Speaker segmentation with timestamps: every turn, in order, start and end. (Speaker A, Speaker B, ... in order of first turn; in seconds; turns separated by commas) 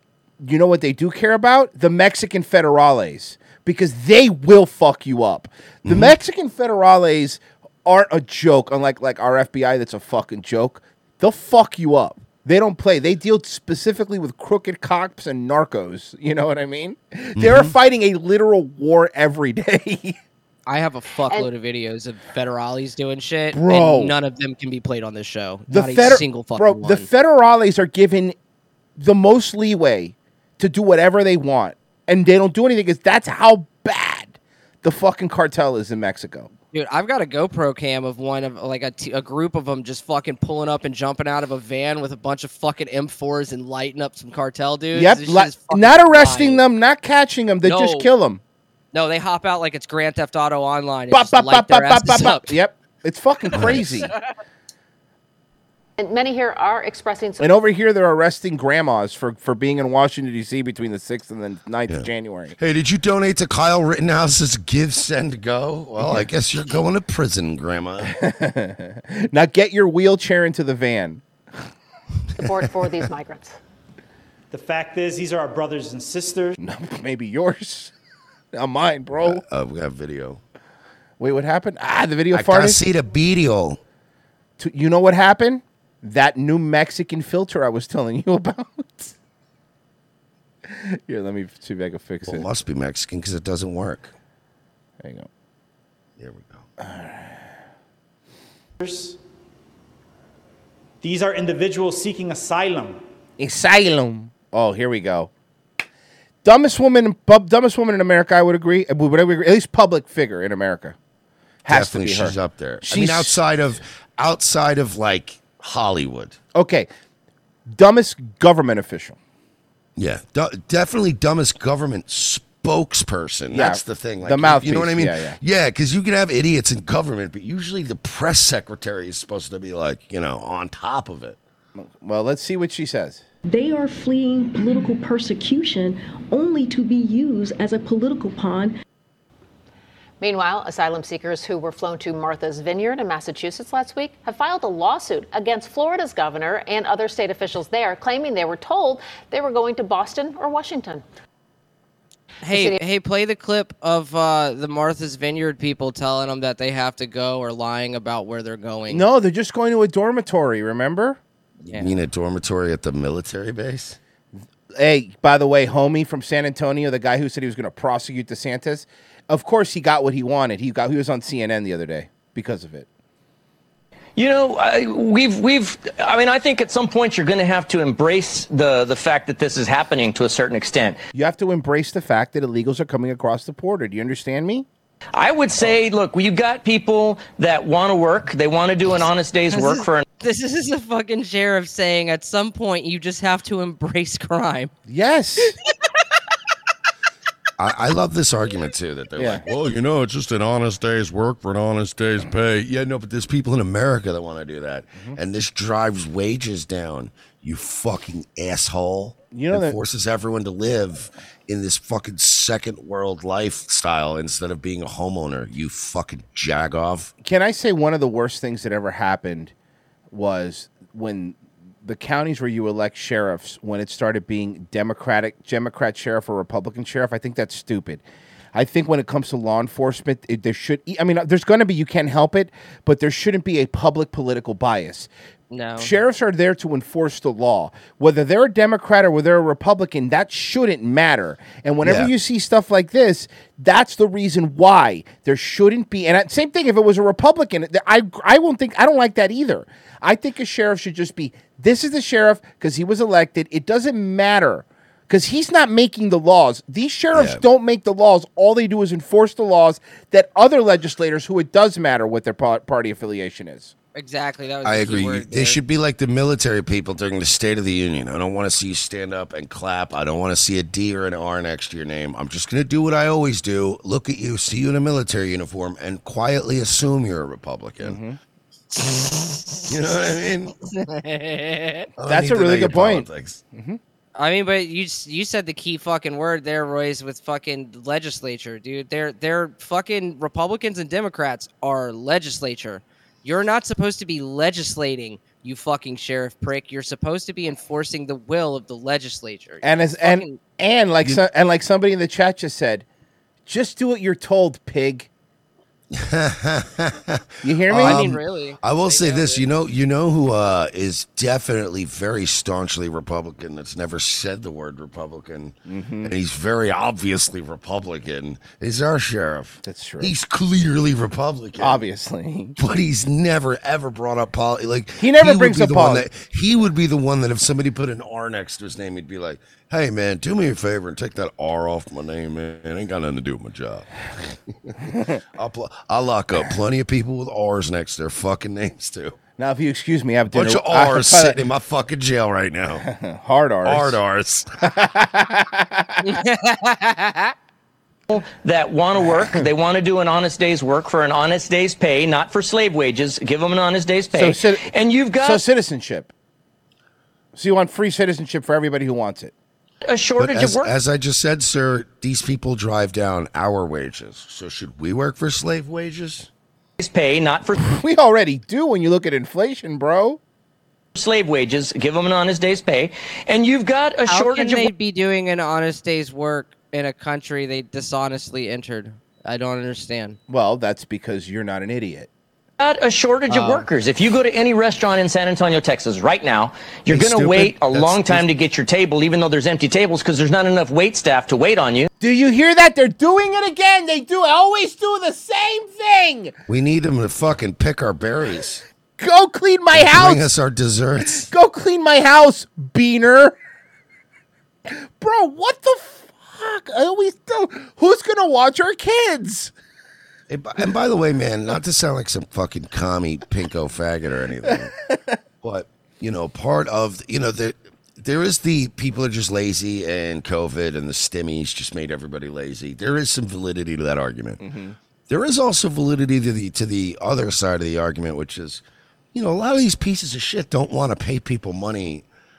Speaker A: 0.4-20.2, Speaker B: 5.8-6.1, Speaker B: 17.4-17.7, Speaker C: 20.7-27.1, Speaker A: 23.5-24.1, Speaker A: 25.7-28.3, Speaker A: 29.0-36.5, Speaker C: 36.7-46.6, Speaker A: 44.9-48.4, Speaker C: 47.6-48.1, Speaker C: 48.9-52.5, Speaker A: 51.1-54.1, Speaker B: 53.5-53.8, Speaker C: 53.5-54.2, Speaker D: 56.0-57.5, Speaker A: 57.4-62.5, Speaker B: 61.9-68.1, Speaker A: 66.0-66.2, Speaker A: 68.1-71.2, Speaker D: 72.4-73.6, Speaker E: 74.5-76.6, Speaker A: 76.6-77.9, Speaker A: 78.5-79.4, Speaker B: 79.2-80.4, Speaker A: 81.2-82.8, Speaker B: 82.3-83.8, Speaker A: 84.6-89.1, Speaker A: 90.7-92.5, Speaker B: 92.2-94.1, Speaker A: 95.0-95.3, Speaker B: 96.2-96.6, Speaker A: 96.8-97.5, Speaker E: 98.8-99.2, Speaker E: 101.0-103.0, Speaker A: 103.4-105.3, Speaker A: 106.4-111.0, Speaker A: 111.6-113.4, Speaker B: 111.7-116.4, Speaker A: 116.5-116.9, Speaker A: 117.7-119.2, Speaker B: 120.0-131.4, Speaker A: 123.5-125.4, Speaker A: 131.8-133.2, Speaker F: 133.5-138.7, Speaker D: 140.2-151.0, Speaker C: 152.4-159.0, Speaker D: 152.5-152.8, Speaker A: 158.9-161.2, Speaker B: 161.7-164.0, Speaker A: 164.8-172.9, Speaker G: 174.2-181.0, Speaker A: 181.1-184.7, Speaker G: 185.2-190.0, Speaker C: 189.5-194.7, Speaker A: 194.9-195.5, Speaker B: 197.6-217.1, Speaker A: 199.2-199.4, Speaker A: 209.3-209.8, Speaker A: 217.2-219.5, Speaker A: 220.1-228.0, Speaker A: 228.5-235.1, Speaker C: 235.5-235.9, Speaker A: 235.8-263.7, Speaker B: 241.8-242.1, Speaker B: 257.1-257.4, Speaker C: 263.9-265.6, Speaker B: 264.6-278.0, Speaker A: 277.8-278.2, Speaker B: 279.7-280.5, Speaker C: 280.7-281.9, Speaker B: 282.0-283.4, Speaker A: 282.1-283.8, Speaker C: 284.1-300.4, Speaker A: 299.6-302.9, Speaker A: 303.5-305.1, Speaker B: 305.9-321.8, Speaker A: 307.4-308.0, Speaker C: 307.7-309.5, Speaker A: 315.6-316.1, Speaker A: 319.6-320.1, Speaker A: 321.6-322.6, Speaker B: 322.6-339.2, Speaker A: 325.0-326.1, Speaker A: 334.9-335.2, Speaker A: 339.4-341.4, Speaker B: 340.3-342.8, Speaker A: 342.8-344.0, Speaker B: 343.6-344.5, Speaker A: 344.6-346.0, Speaker C: 346.0-347.3, Speaker G: 348.1-355.4, Speaker A: 354.1-356.1, Speaker A: 357.3-359.3, Speaker G: 359.9-360.7, Speaker B: 360.2-366.3, Speaker G: 366.8-367.5, Speaker A: 367.6-370.2, Speaker G: 370.9-374.7, Speaker C: 374.1-380.2, Speaker A: 380.3-382.1, Speaker G: 382.6-391.9, Speaker C: 383.3-383.6, Speaker B: 386.9-388.2, Speaker A: 392.0-396.3, Speaker B: 396.5-398.6, Speaker A: 399.0-400.3, Speaker B: 399.7-401.3, Speaker A: 401.0-403.4, Speaker A: 404.7-409.5, Speaker B: 410.3-414.7, Speaker A: 414.5-415.1, Speaker B: 415.4-424.4, Speaker A: 424.4-424.8, Speaker B: 425.1-428.6, Speaker B: 429.1-432.1